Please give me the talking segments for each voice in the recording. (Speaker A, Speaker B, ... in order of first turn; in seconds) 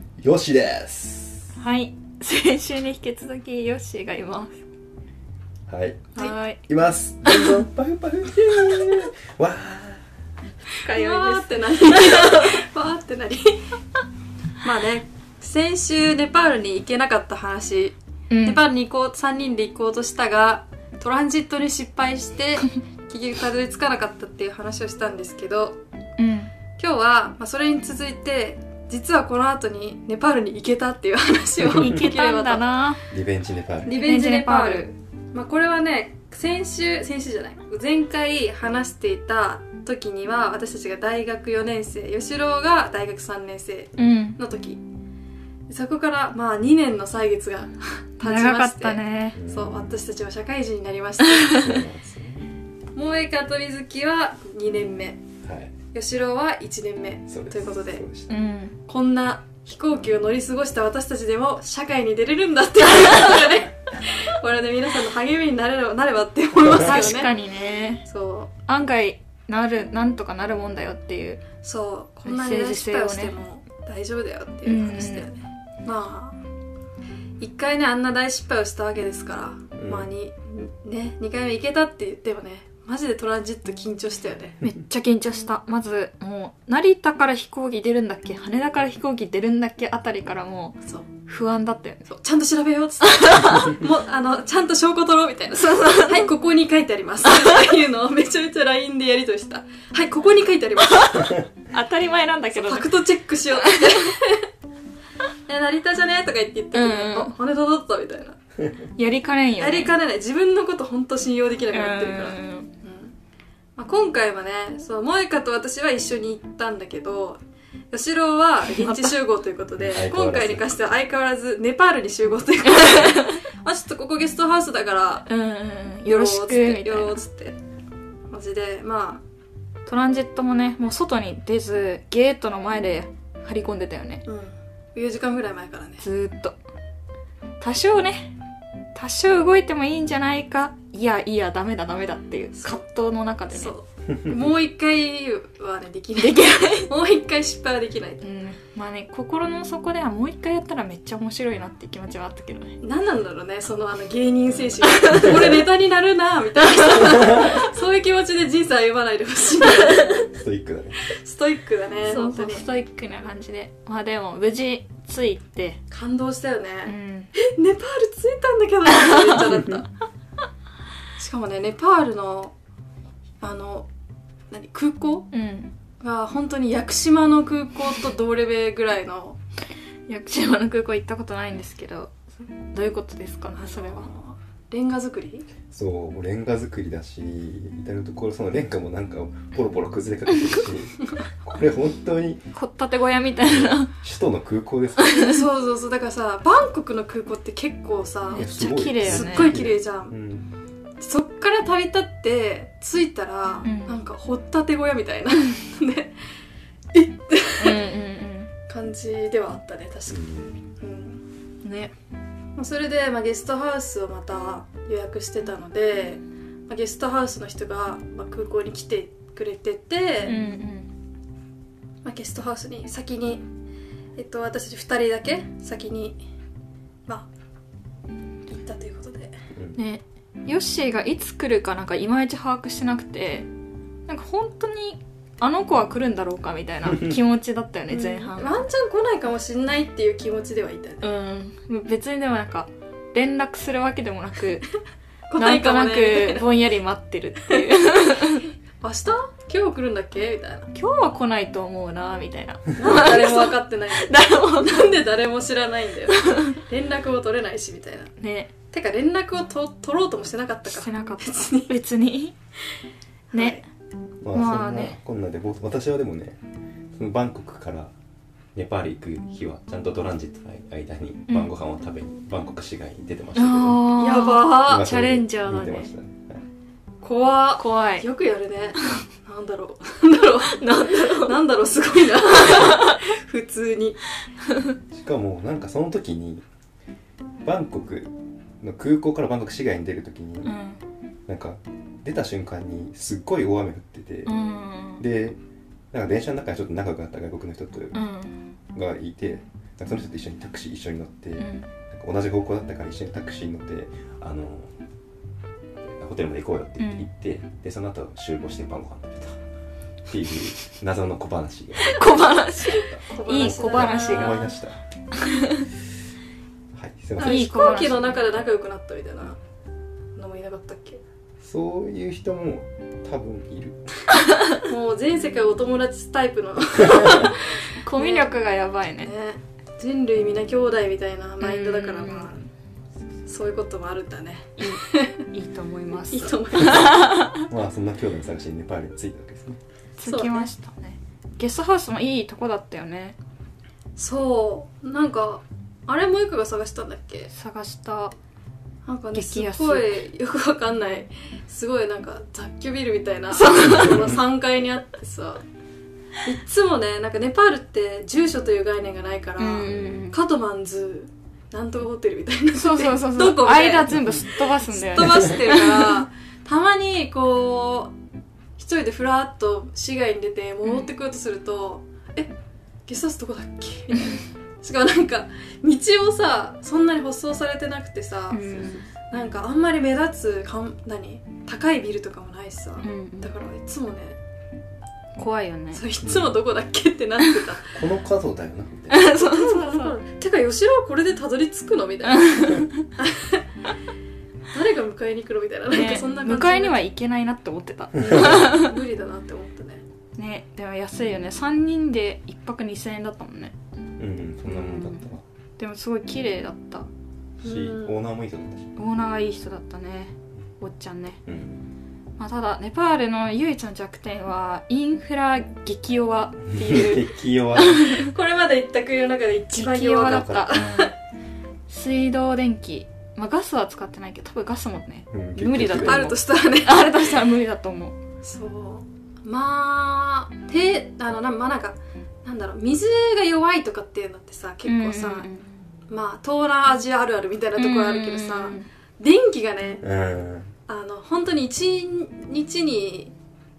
Speaker A: 0.2-1.5, 5.7-10.0, 31.7-31.9, 33.1-33.9, 49.4-49.9, 51.5-52.5, 55.4-55.7, 57.3-58.3, 79.8-80.1, 119.8-120.8, 155.2-155.6, 160.2-161.1, 185.7-192.4, 193.4-195.2, 198.3-200.5, 210.1-210.6, 264.2-266.4, 266.9-267.9, 268.6-273.9, 274.6-276.4, 284.9-286.4, 287.4-290.6, 291.3-294.4, 295.0-295.4, 295.9-297.9, 298.7-304.7, 305.8-309.4, 310.1-312.0, 313.4-314.8, 316.7-317.4, 321.4-323.8, 326.9-327.3, 337.5-339.6, 386.0-386.4, 387.7-389.1, 398.0-398.5, 404.0-405.2, 407.4-408.7, 411.3-411.6, 416.5-417.9, 420.0-420.6, 425.1-426.2, 439.8-440.5
Speaker B: 1.6-4.6, 6.2-6.6, 7.3-7.6, 10.8-12.6, 18.3-18.6, 26.2-26.5, 31.7-33.0, 33.9-34.9, 44.0-44.4, 48.2-49.4, 51.2-51.8, 58.3-58.8, 66.7-68.0, 68.7-71.4, 72.2-73.3, 74.7-75.3, 84.6-92.1, 93.0-93.8, 95.5-96.3, 100.8-102.9, 103.5-104.2, 106.7-107.3, 109.0-110.0, 111.7-112.7, 118.7-119.2, 122.6-123.4, 125.3-127.2, 129.9-134.2, 136.0-136.6, 137.6-138.3, 138.9-143.8, 146.2-146.9, 148.2-152.8, 154.8-155.5, 162.1-165.8, 166.9-167.3, 168.9-169.4, 175.3-175.7, 180.1-184.1, 192.5-193.9, 195.0-195.4, 198.3-199.6, 203.6-204.0, 207.6-208.5, 211.6-211.9, 220.2-220.9, 229.8-233.5, 234.1-238.6, 241.0-244.7, 245.4-248.5, 250.7-254.9, 256.1-256.6, 258.2-258.5, 260.7-262.3, 263.3-263.6, 264.3-264.9, 273.4-275.9, 277.6-278.1, 280.4-281.4, 282.3-283.1, 290.4-290.8, 294.3-295.0, 297.9-298.4, 301.4-301.7, 306.8-307.1, 311.8-314.5, 315.1-315.7, 317.2-318.2, 324.1-324.6, 326.9-329.1, 331.4-332.3, 334.6-337.5, 340.0-343.2, 347.3-348.1, 349.1-350.0, 353.3-354.1, 359.4-360.2, 362.6-366.0, 370.6-370.9, 373.9-374.2, 378.3-378.9, 382.8-383.3, 385.2-385.8, 388.9-390.0, 392.1-392.9, 395.7-398.8, 400.2-403.6, 404.5-405.0, 405.6-406.9, 408.8-411.2, 412.2-418.1, 419.5-420.9, 421.7-428.0, 434.6-435.6, 437.6-438.7
Speaker C: 10.8-13.6, 14.6-25.8, 26.8-32.6, 33.8-44.8, 45.7-51.8, 53.0-55.2, 55.9-58.0, 58.9-67.3, 68.1-68.5, 71.6-76.4, 77.4-84.6, 92.1-101.4, 102.5-104.5, 105.5-108.4, 109.6-113.1, 113.8-117.4, 117.9-125.3, 126.1-127.6, 128.3-129.2, 134.3-136.0, 143.5-148.2, 152.8-160.2, 161.0-162.7, 165.9-169.9, 171.2-172.6, 173.4-173.9, 174.5-175.3, 176.0-179.4, 183.6-185.5, 195.2-200.2, 201.0-206.2, 206.9-207.8, 208.7-210.2, 210.8-211.2, 212.6-220.4, 222.0-223.4, 224.2-226.2, 228.5-229.4, 237.9-241.1, 245.3-246.5, 248.8-250.7, 252.8-258.1, 258.7-261.7, 263.3-263.6, 274.0-274.9, 277.0-284.0, 312.6-314.5, 317.2-319.4, 320.2-321.0, 324.6-328.3, 329.0-332.4, 333.3-335.3, 336.0-337.0, 340.1-340.5, 344.0-347.3, 348.9-355.4, 356.2-367.9, 368.6-372.3, 372.9-384.2, 385.7-387.8, 389.1-393.4, 394.5-396.8, 398.0-399.8, 407.4-408.0, 417.9-420.9, 425.7-427.0, 428.2-435.3, 435.9-439.8, 440.7-443.1